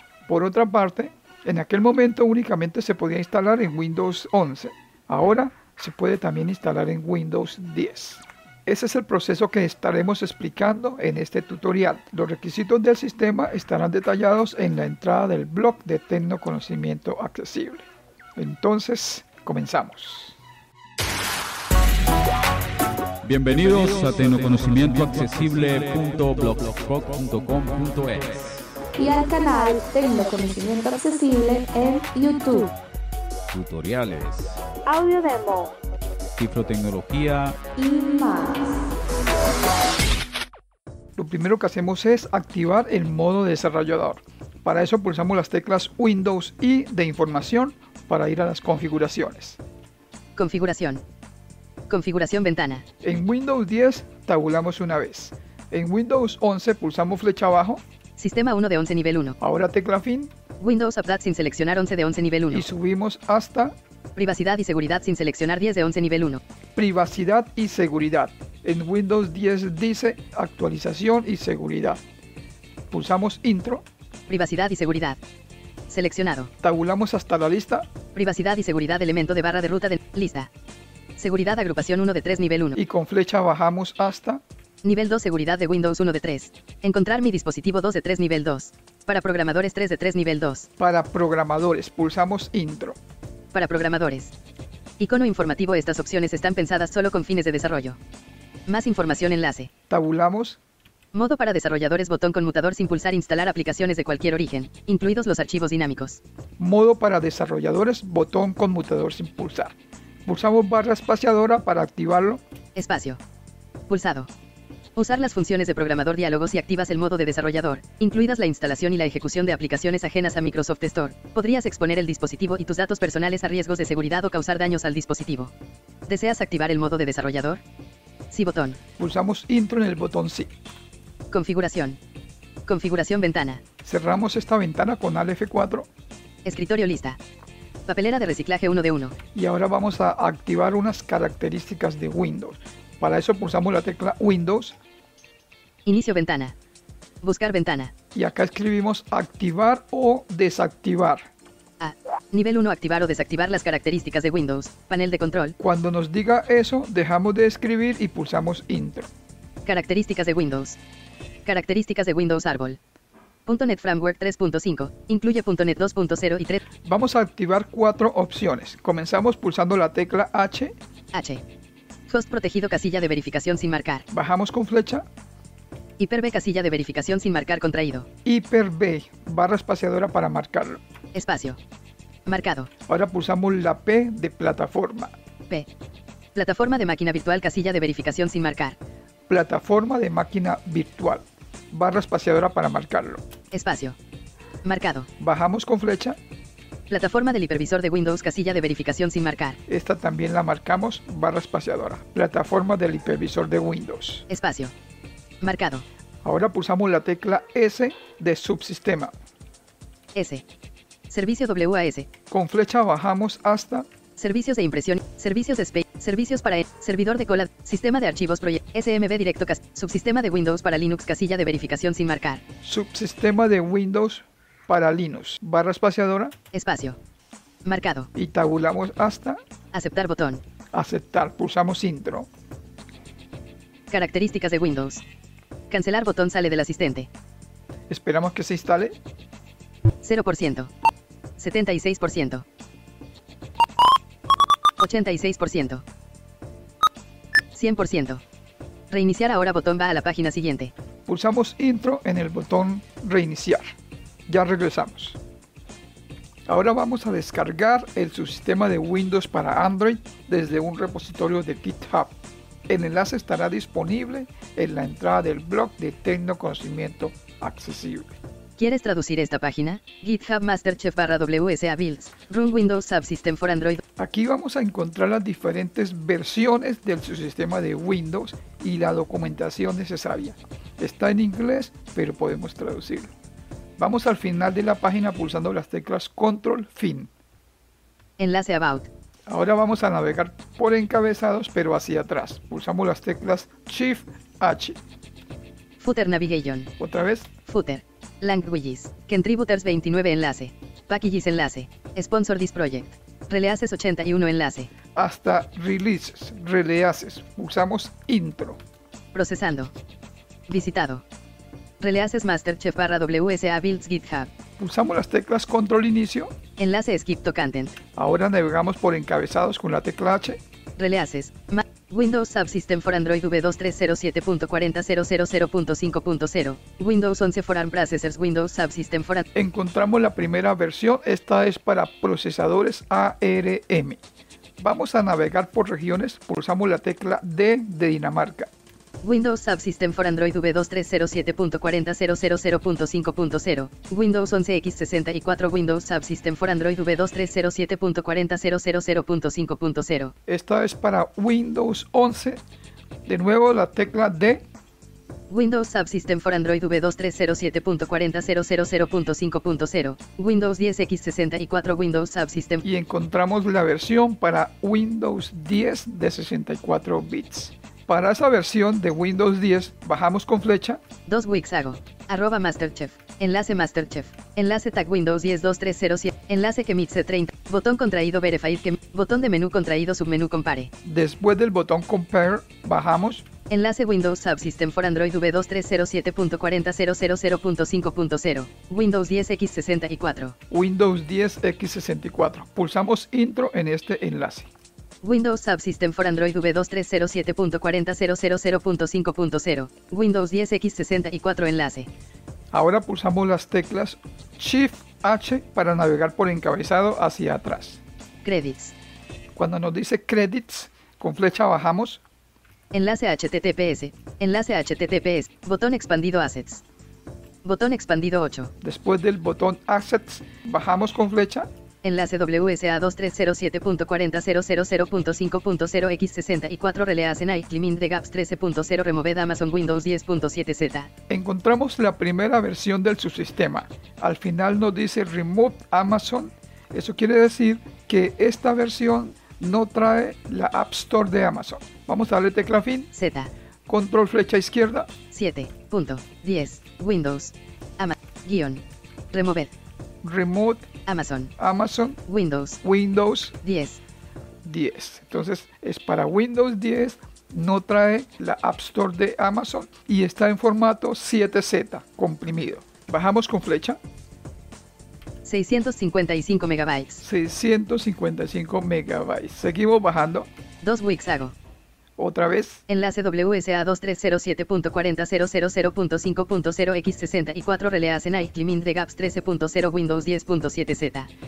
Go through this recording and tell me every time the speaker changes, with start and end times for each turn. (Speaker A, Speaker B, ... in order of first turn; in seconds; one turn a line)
Speaker A: 0.3-20.4
Speaker B: 23.2-28.6
Speaker C: 29.0-32.7
Speaker B: 33.5-34.6
Speaker C: 34.9-35.8
Speaker B: 36.4-37.6
Speaker C: 37.8-38.9
Speaker A: 41.2-49.6
Speaker D: 50.4-51.0
Speaker D: 51.9-52.9
Speaker A: 53.0-57.8
Speaker D: 58.2-59.4
Speaker A: 59.4-60.3
Speaker D: 60.6-62.7
Speaker A: 62.5-63.8
Speaker D: 64.2-66.4
Speaker A: 66.8-72.0
Speaker A: 72.9-73.8
Speaker D: 74.3-75.2
Speaker D: 75.9-76.5
Speaker A: 76.6-77.9
Speaker D: 78.2-80.5
Speaker D: 81.2-82.8
Speaker A: 82.8-84.4
Speaker D: 84.8-90.7
Speaker A: 90.8-93.0
Speaker D: 93.5-94.3
Speaker D: 95.0-98.0
Speaker D: 98.7-99.7
Speaker A: 99.9-100.6
Speaker D: 101.1-106.2
Speaker A: 106.6-109.8
Speaker A: 110.3-112.4
Speaker D: 112.8-113.2
Speaker D: 113.9-114.3
Speaker D: 115.0-125.5
Speaker D: 126.1-127.6
Speaker D: 128.3-128.8
Speaker A: 129.0-130.5
Speaker D: 131.3-132.0
Speaker D: 132.7-133.6
Speaker A: 133.8-135.9
Speaker D: 136.4-137.2
Speaker D: 137.9-139.2
Speaker A: 139.3-144.8
Speaker D: 145.9-146.5
Speaker D: 147.2-147.9
Speaker A: 148.2-151.3
Speaker D: 151.8-155.6
Speaker A: 155.6-159.1
Speaker D: 159.7-160.8
Speaker D: 161.4-162.8
Speaker D: 163.5-166.6
Speaker A: 166.8-170.8
Speaker D: 171.1-171.4
Speaker D: 172.1-174.1
Speaker A: 174.1-175.1
Speaker D: 176.0-178.1
Speaker A: 178.2-180.8
Speaker D: 181.1-181.6
Speaker D: 182.3-182.7
Speaker A: 182.9-185.1
Speaker D: 186.3-188.8
Speaker A: 189.3-193.2
Speaker D: 193.5-194.0
Speaker D: 194.6-195.1
Speaker A: 195.2-196.2
Speaker D: 196.9-199.6
Speaker A: 199.7-204.3
Speaker D: 204.3-204.7
Speaker D: 205.4-205.8
Speaker A: 206.2-209.2
Speaker D: 210.2-210.4
Speaker D: 211.1-212.1
Speaker A: 212.3-213.9
Speaker D: 214.2-222.4
Speaker A: 222.6-226.3
Speaker D: 226.5-227.0
Speaker D: 227.7-228.1
Speaker A: 228.2-229.4
Speaker D: 229.7-230.4
Speaker A: 230.7-232.3
Speaker D: 233.9-235.0
Speaker D: 235.7-237.1
Speaker A: 237.9-239.0
Speaker D: 240.0-240.7
Speaker D: 241.4-242.4
Speaker D: 244.8-245.8
Speaker D: 247.5-248.2
Speaker D: 248.9-250.7
Speaker A: 251.1-253.7
Speaker A: 254.3-255.2
Speaker A: 256.5-262.1
Speaker A: 262.7-268.2
Speaker D: 268.6-273.8
Speaker A: 274.0-283.1
Speaker A: 283.8-287.1
Speaker D: 288.2-288.9
Speaker A: 289.3-294.8
Speaker D: 295.8-296.7
Speaker A: 296.8-297.3
Speaker D: 297.5-304.7
Speaker A: 304.9-308.6
Speaker D: 309.1-309.7
Speaker D: 310.5-311.0
Speaker D: 311.8-314.3
Speaker A: 314.6-316.3
Speaker D: 316.6-317.8
Speaker A: 317.9-320.4
Speaker D: 320.8-329.3
Speaker A: 329.4-334.0
Speaker A: 334.6-338.5
Speaker D: 339.0-350.1
Speaker A: 350.3-352.4
Speaker A: 353.1-354.4
Speaker D: 355.3-362.6
Speaker A: 362.6-370.8
Speaker D: 371.1-380.7
Speaker A: 380.8-383.2
Speaker D: 383.5-390.4
Speaker A: 390.5-394.5
Speaker D: 395.0-401.9
Speaker A: 402.5-407.8
Speaker D: 408.2-408.7
Speaker A: 409.4-412.0
Speaker D: 412.7-416.6
Speaker D: 417.4-418.5
Speaker A: 418.6-421.5
Speaker D: 421.8-430.9
Speaker A: 431.1-442.9
Speaker D: 442.9-443.3
Speaker A: 443.7-444.9
Speaker D: 445.1-449.5
Speaker A: 450.0-450.7
Speaker D: 450.9-451.3
Speaker A: 451.4-452.0
Speaker D: 452.1-452.6
Speaker A: 452.6-453.4
Speaker D: 453.4-453.8
Speaker A: 454.4-463.8
Speaker D: 465.2-467.0
Speaker A: 467.0-470.3
Speaker D: 470.6-471.4
Speaker A: 472.0-472.6
Speaker D: 472.7-481.1